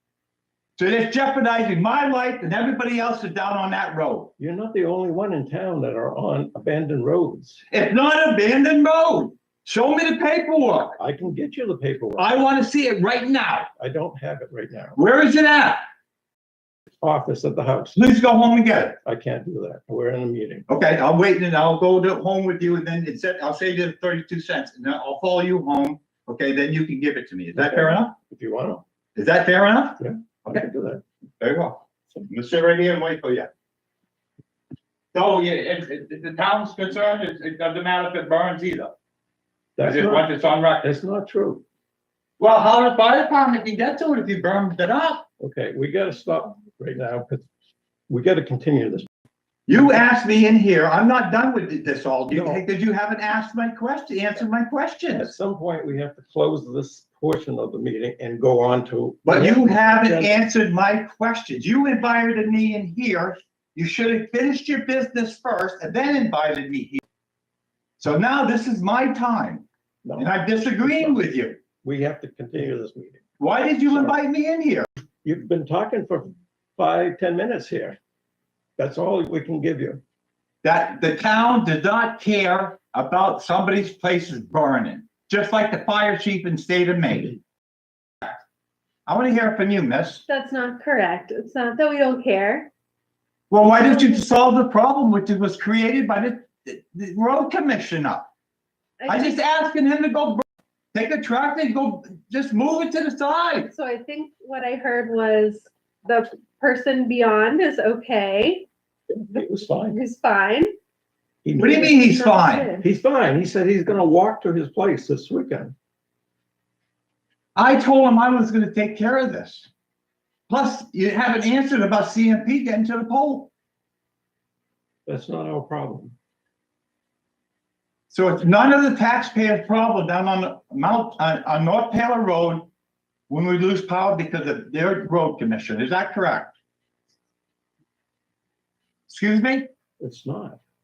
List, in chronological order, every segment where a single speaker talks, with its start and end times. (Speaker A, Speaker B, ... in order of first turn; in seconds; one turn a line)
Speaker A: 0.8-4.3
Speaker B: 4.4-7.7
Speaker A: 7.7-11.0
Speaker B: 11.0-12.4
Speaker A: 12.2-13.7
Speaker B: 13.8-15.0
Speaker A: 15.0-15.8
Speaker B: 16.9-18.0
Speaker A: 17.9-19.0
Speaker B: 19.0-20.6
Speaker A: 20.7-28.1
Speaker B: 27.6-28.8
Speaker A: 29.2-30.6
Speaker B: 30.0-31.0
Speaker A: 31.4-33.5
Speaker A: 35.1-38.9
Speaker B: 39.8-40.3
Speaker A: 39.8-40.9
Speaker B: 40.8-41.6
Speaker A: 42.4-45.3
Speaker B: 45.4-47.5
Speaker B: 48.1-49.1
Speaker A: 49.7-55.3
Speaker B: 49.7-50.0
Speaker B: 52.3-52.6
Speaker B: 55.1-60.4
Speaker A: 59.2-67.0
Speaker A: 68.0-69.7
Speaker B: 70.0-71.3
Speaker A: 70.2-71.6
Speaker B: 71.8-73.2
Speaker A: 73.4-74.9
Speaker B: 73.9-74.2
Speaker B: 75.2-78.0
Speaker B: 78.8-80.0
Speaker A: 80.6-87.4
Speaker A: 89.1-90.2
Speaker C: 90.3-92.7
Speaker A: 93.5-98.3
Speaker C: 93.8-94.2
Speaker C: 99.0-99.4
Speaker A: 99.1-103.7
Speaker C: 103.6-108.7
Speaker B: 109.1-110.0
Speaker C: 109.9-110.7
Speaker B: 111.4-112.1
Speaker A: 111.6-112.7
Speaker C: 111.6-112.9
Speaker B: 112.8-115.8
Speaker A: 117.5-119.7
Speaker A: 120.5-123.5
Speaker B: 125.1-126.2
Speaker A: 128.1-132.7
Speaker A: 133.3-136.5
Speaker A: 139.1-139.7
Speaker B: 140.0-140.6